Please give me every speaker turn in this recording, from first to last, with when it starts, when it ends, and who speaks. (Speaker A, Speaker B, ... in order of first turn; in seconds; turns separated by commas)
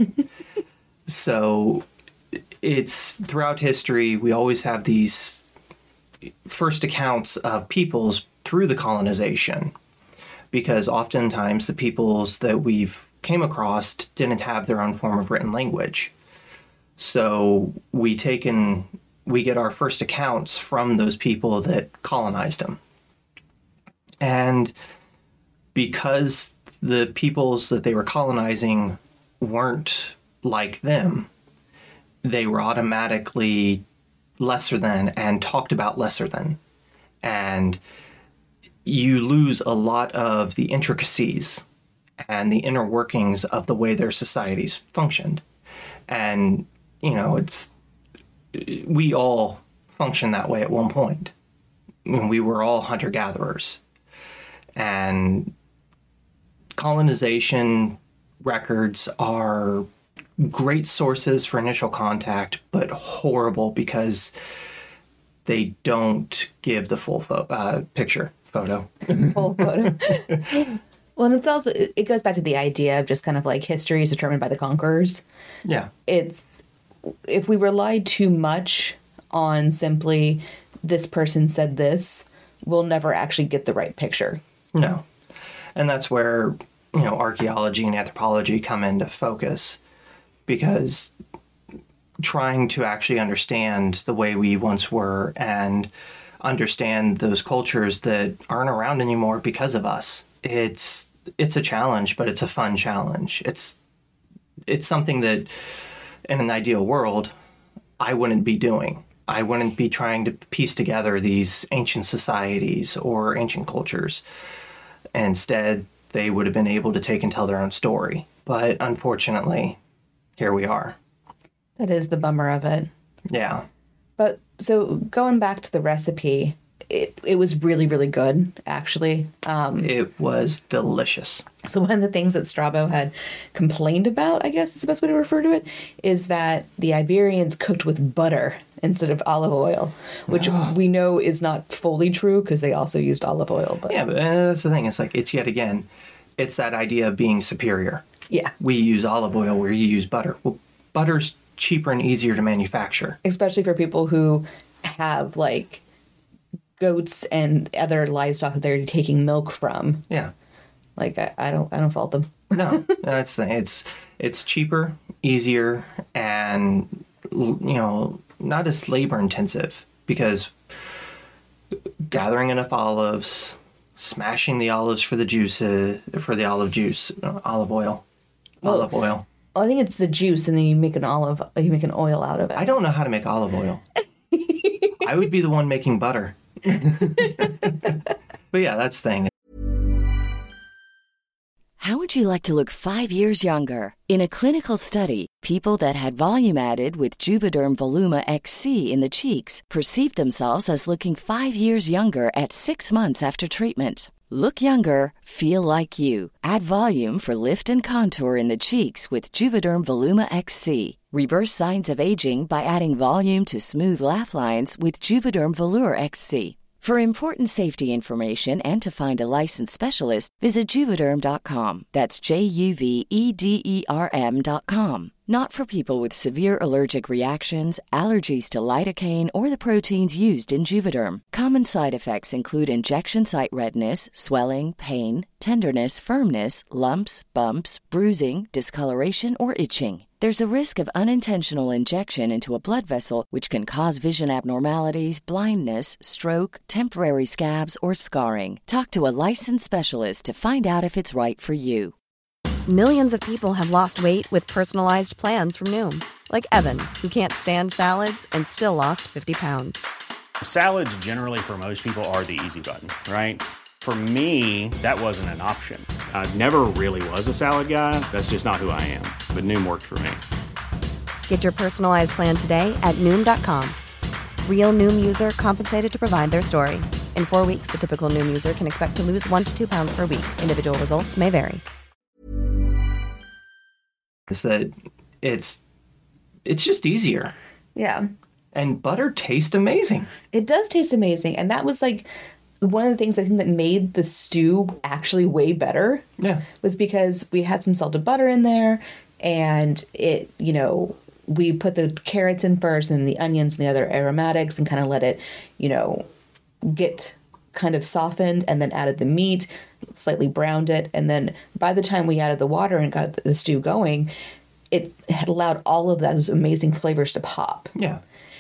Speaker A: 1.1-1.9, Speaker A: 2.6-5.5, Speaker A: 6.5-9.7, Speaker A: 10.5-16.1, Speaker A: 17.0-22.8, Speaker A: 24.2-24.7, Speaker A: 25.7-31.3, Speaker A: 32.2-33.8, Speaker A: 34.4-36.6, Speaker A: 37.2-37.8, Speaker A: 38.9-41.6, Speaker A: 42.2-45.4, Speaker A: 46.1-47.7, Speaker A: 48.5-51.3, Speaker A: 52.0-53.8, Speaker A: 54.8-55.5, Speaker A: 56.8-64.3, Speaker A: 65.5-70.7, Speaker B: 69.1-70.6, Speaker B: 71.2-75.2, Speaker A: 75.7-75.9, Speaker B: 76.1-76.6, Speaker B: 77.3-84.4, Speaker A: 84.7-85.0, Speaker A: 85.8-89.8, Speaker A: 90.5-91.1, Speaker A: 92.2-95.9, Speaker A: 96.4-103.8, Speaker A: 104.7-105.5, Speaker A: 106.3-107.3, Speaker A: 108.0-114.2, Speaker A: 115.1-119.8, Speaker A: 120.4-121.0, Speaker B: 121.8-122.9, Speaker A: 123.3-123.7, Speaker B: 124.2-129.9, Speaker A: 129.8-131.4, Speaker B: 131.6-144.0, Speaker A: 140.3-140.7, Speaker A: 143.9-148.0, Speaker A: 148.6-153.2, Speaker B: 153.2-155.8, Speaker B: 156.8-160.1, Speaker B: 161.0-163.0, Speaker A: 162.5-170.5, Speaker A: 172.1-178.0, Speaker A: 178.6-179.2, Speaker B: 178.6-178.9, Speaker B: 179.5-182.7, Speaker A: 182.6-183.8, Speaker B: 184.3-185.0, Speaker A: 185.0-187.9, Speaker A: 188.5-189.3, Speaker C: 191.8-251.9, Speaker D: 252.7-259.9, Speaker E: 260.4-270.2, Speaker D: 271.3-273.8, Speaker D: 274.4-281.6, Speaker A: 284.3-285.6, Speaker A: 286.4-287.3, Speaker B: 287.8-288.1, Speaker A: 288.5-290.1, Speaker B: 290.3-292.1, Speaker B: 292.6-296.1, Speaker A: 296.2-296.4, Speaker B: 296.6-306.1, Speaker B: 306.6-314.1, Speaker B: 314.7-317.7, Speaker A: 317.8-318.0